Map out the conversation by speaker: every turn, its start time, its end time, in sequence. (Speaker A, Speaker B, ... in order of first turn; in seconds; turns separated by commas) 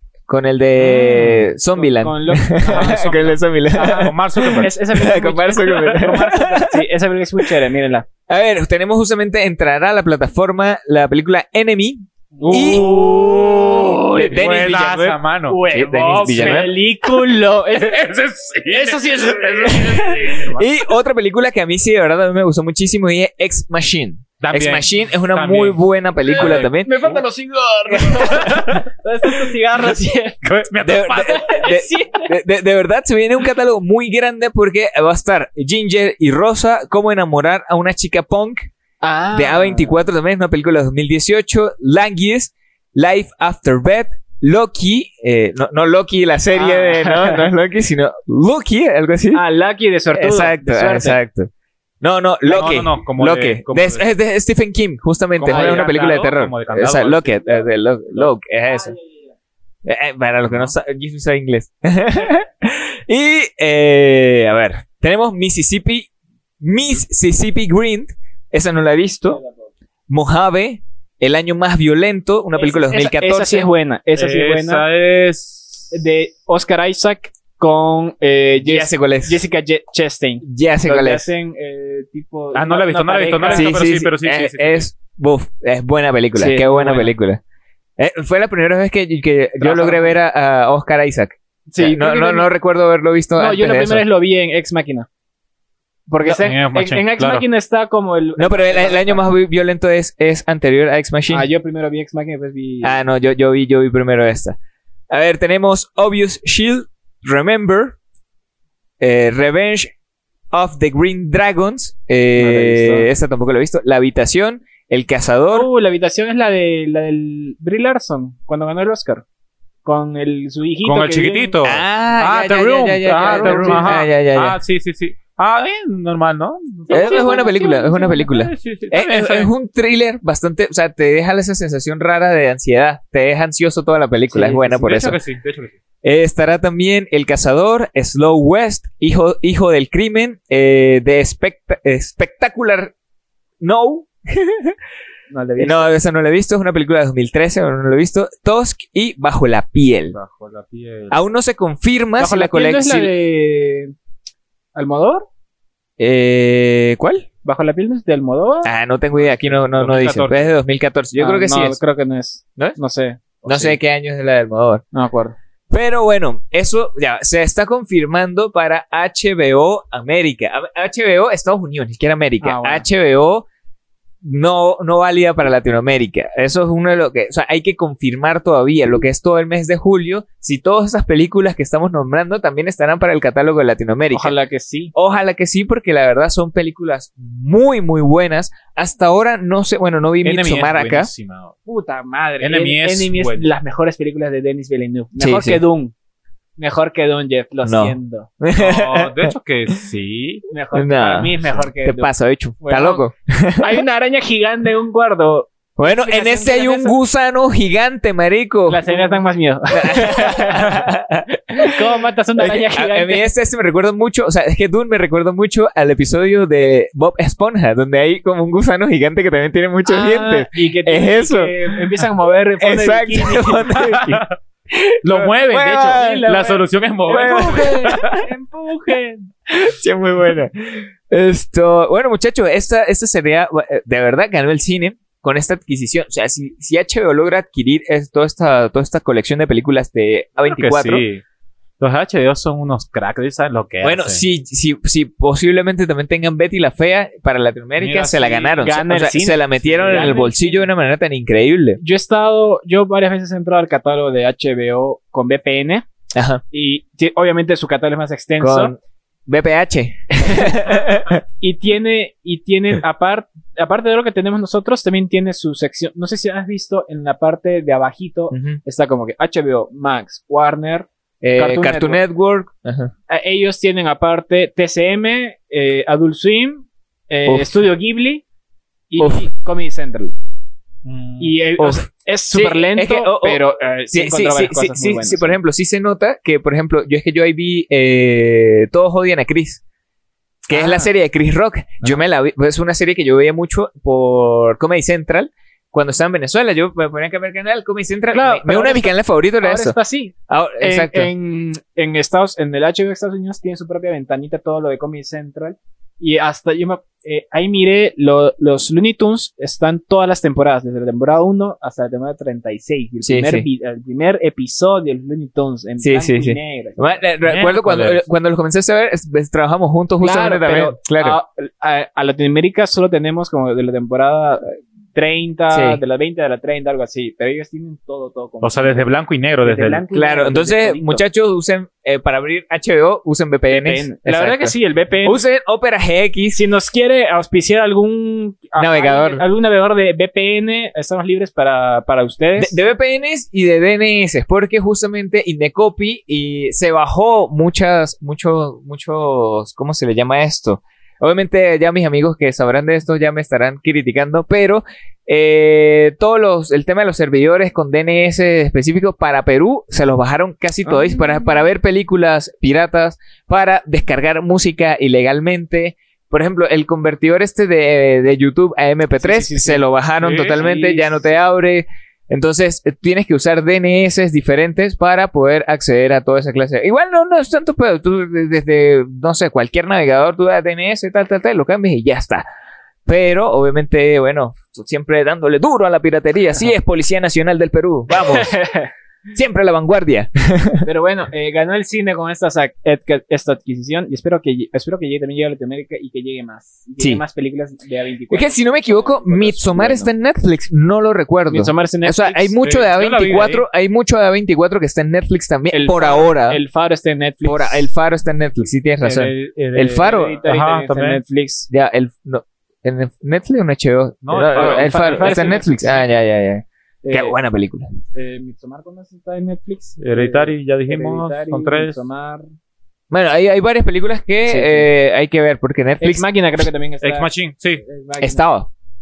Speaker A: 0.3-6.8, Speaker B: 0.8-8.1, Speaker C: 3.8-4.7, Speaker A: 8.3-15.2, Speaker B: 12.4-14.5, Speaker C: 12.4-13.4, Speaker C: 14.2-15.6, Speaker B: 15.5-18.1, Speaker A: 15.7-16.7, Speaker C: 16.1-16.7, Speaker C: 17.8-20.6, Speaker B: 18.6-20.6, Speaker A: 20.5-27.2, Speaker C: 24.4-26.7, Speaker B: 26.2-30.4, Speaker A: 27.9-28.5, Speaker C: 28.1-28.9, Speaker C: 30.4-31.6, Speaker A: 30.8-38.7, Speaker B: 31.2-32.3, Speaker B: 39.0-40.0, Speaker A: 39.3-49.4, Speaker B: 46.5-47.5, Speaker B: 49.3-51.2, Speaker A: 50.1-51.5, Speaker A: 52.0-59.0, Speaker C: 52.5-54.1, Speaker C: 55.4-57.4, Speaker B: 55.5-55.9, Speaker A: 59.9-66.1, Speaker A: 66.6-69.4, Speaker A: 70.1-73.7, Speaker B: 72.6-74.8, Speaker C: 74.2-75.9, Speaker B: 75.9-83.8, Speaker A: 78.6-79.4, Speaker A: 80.4-81.3, Speaker C: 82.5-84.9, Speaker A: 83.4-87.4, Speaker B: 86.3-87.1, Speaker A: 88.0-94.0, Speaker B: 89.6-90.2, Speaker B: 91.7-92.5, Speaker B: 93.4-95.1, Speaker B: 96.1-99.2, Speaker C: 96.2-97.5, Speaker A: 98.4-101.5, Speaker B: 101.3-103.0, Speaker A: 102.8-104.6, Speaker A: 105.1-108.0, Speaker A: 109.0-109.9, Speaker A: 110.5-115.7, Speaker B: 112.4-113.1, Speaker B: 115.5-119.2, Speaker B: 119.8-121.6, Speaker C: 120.8-127.6, Speaker A: 121.6-124.6, Speaker B: 123.2-123.9, Speaker B: 126.9-128.3, Speaker A: 126.9-135.2, Speaker C: 128.2-129.5, Speaker B: 134.3-134.7, Speaker C: 134.6-135.8, Speaker A: 136.0-142.9, Speaker A: 143.6-144.8, Speaker B: 145.3-145.9, Speaker A: 145.6-150.2, Speaker C: 150.1-151.2, Speaker A: 151.1-153.1, Speaker B: 152.2-153.9, Speaker B: 154.8-155.3, Speaker A: 156.0-157.3, Speaker B: 157.4-158.7, Speaker A: 158.6-161.8, Speaker C: 159.2-160.5, Speaker B: 161.2-163.8, Speaker A: 163.5-164.8, Speaker B: 164.9-165.4, Speaker A: 165.7-173.5, Speaker B: 172.4-172.9, Speaker A: 174.2-184.3, Speaker B: 184.1-184.9, Speaker A: 184.9-191.1, Speaker C: 190.2-191.6, Speaker B: 191.7-195.9, Speaker C: 192.4-193.5, Speaker A: 195.2-195.6, Speaker B: 196.6-198.3, Speaker A: 197.6-199.3, Speaker C: 198.6-200.4, Speaker B: 200.5-203.1, Speaker A: 200.7-203.8, Speaker B: 203.6-207.0, Speaker A: 205.8-209.2, Speaker B: 208.7-210.8, Speaker A: 209.7-221.6, Speaker B: 211.5-213.3, Speaker B: 219.9-223.7, Speaker A: 222.6-226.3, Speaker C: 223.7-224.3, Speaker C: 225.0-228.2, Speaker B: 225.8-229.3, Speaker A: 227.1-228.2, Speaker A: 229.5-241.0, Speaker C: 240.4-241.2, Speaker C: 241.8-244.2, Speaker A: 243.8-251.8, Speaker C: 247.8-248.6, Speaker B: 248.6-250.6, Speaker C: 249.6-250.3, Speaker B: 251.8-255.9, Speaker A: 256.1-256.4, Speaker B: 256.5-258.8, Speaker A: 258.4-261.2, Speaker B: 261.4-272.0, Speaker A: 268.3-268.6, Speaker A: 271.2-272.9, Speaker B: 273.1-278.2, Speaker A: 277.3-277.6, Speaker B: 278.9-280.1, Speaker A: 279.0-279.3, Speaker C: 280.9-281.4, Speaker B: 281.2-285.4, Speaker A: 281.6-289.6, Speaker A: 290.5-299.8, Speaker B: 290.5-290.9, Speaker B: 298.1-317.0, Speaker A: 300.3-301.1, Speaker A: 313.0-313.5, Speaker A: 315.8-321.2, Speaker C: 317.2-318.0, Speaker B: 320.0-328.9, Speaker A: 325.5-325.8, Speaker C: 328.4-329.8, Speaker B: 329.4-331.0, Speaker A: 329.9-334.5, Speaker B: 333.5-335.2, Speaker A: 335.1-336.4, Speaker B: 336.3-342.6, Speaker A: 338.6-339.2, Speaker A: 342.4-382.2, Speaker B: 360.6-361.4, Speaker B: 369.0-371.2, Speaker C: 370.0-370.4, Speaker A: 382.9-388.3, Speaker B: 388.0-388.7, Speaker A: 389.1-390.7, Speaker B: 390.6-399.9, Speaker A: 398.1-406.4, Speaker B: 401.3-402.4, Speaker C: 402.4-403.4, Speaker B: 405.5-407.7, Speaker A: 407.2-410.2, Speaker C: 408.8-411.0, Speaker B: 409.8-411.5, Speaker A: 411.5-417.7, Speaker C: 414.0-415.4, Speaker B: 414.3-415.9, Speaker B: 416.8-417.2, Speaker B: 417.9-422.3, Speaker C: 419.8-421.8, Speaker A: 422.9-426.1, Speaker B: 424.3-424.7, Speaker B: 425.8-427.1, Speaker C: 426.8-427.6, Speaker B: 427.6-428.2, Speaker A: 428.0-428.5